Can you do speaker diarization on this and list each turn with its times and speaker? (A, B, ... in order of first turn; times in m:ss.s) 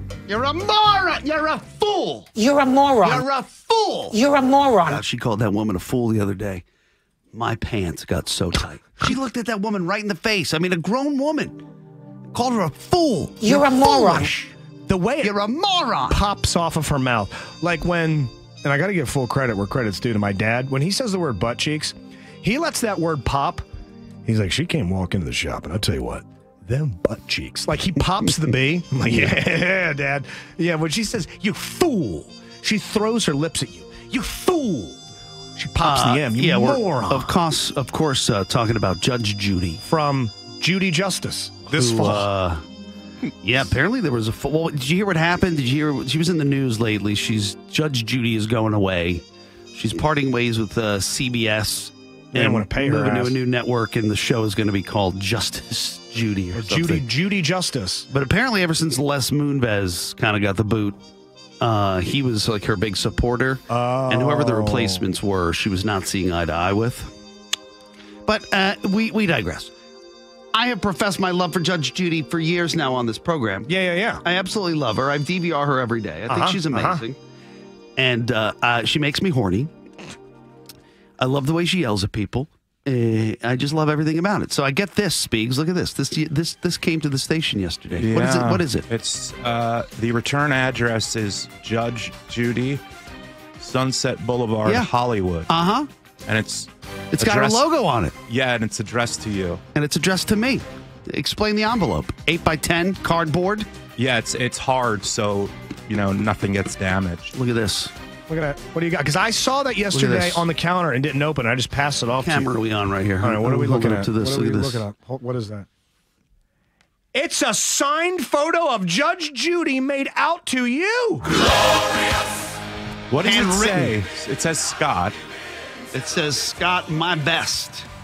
0:00.3-0:02.3 A
0:02.3-0:03.2 B
0:03.0-0:04.2 A
0:04.1-0:05.0 B
0:04.8-0:06.6 A
0:07.3-0:11.6 A
0:12.3-0:14.3 A
0:13.4-0:14.2 B
0:13.6-0:14.4 C
0:14.9-0:15.3 C
0:15.2-0:16.2 A
0:16.1-0:23.6 C
0:24.2-0:35.0 C
0:35.6-0:37.3 C
0:35.8-0:39.8 A
0:39.8-0:42.3 C
0:41.7-0:42.6 A
0:43.4-0:49.2 A
0:49.7-0:57.0 A
0:52.3-0:53.4 C
0:56.5-0:58.1 C
0:58.1-1:01.0 A
1:01.6-1:07.1 A
1:03.7-1:05.1 C
1:08.2-1:09.7 A
1:10.5-1:13.7 A
1:13.7-1:14.2 C
1:14.2-1:17.2 A
1:16.3-1:17.0 C
1:18.0-1:19.7 A
1:21.2-1:28.9 A
1:27.9-1:32.8 D
1:33.6-1:35.5 D
1:34.6-1:34.9 A
1:35.5-1:35.9 A
1:36.3-1:37.7 D
1:37.1-1:38.1 A
1:38.3-1:39.6 D
1:39.7-1:43.7 A
1:44.0-1:47.3 D
1:47.3-1:47.9 A
1:48.3-1:52.6 C
1:49.9-1:50.4 A
1:52.2-1:54.8 A
1:53.2-1:55.7 C
1:57.1-2:01.2 C
2:03.1-2:05.2 D
2:03.2-2:04.0 A
2:05.9-2:07.9 A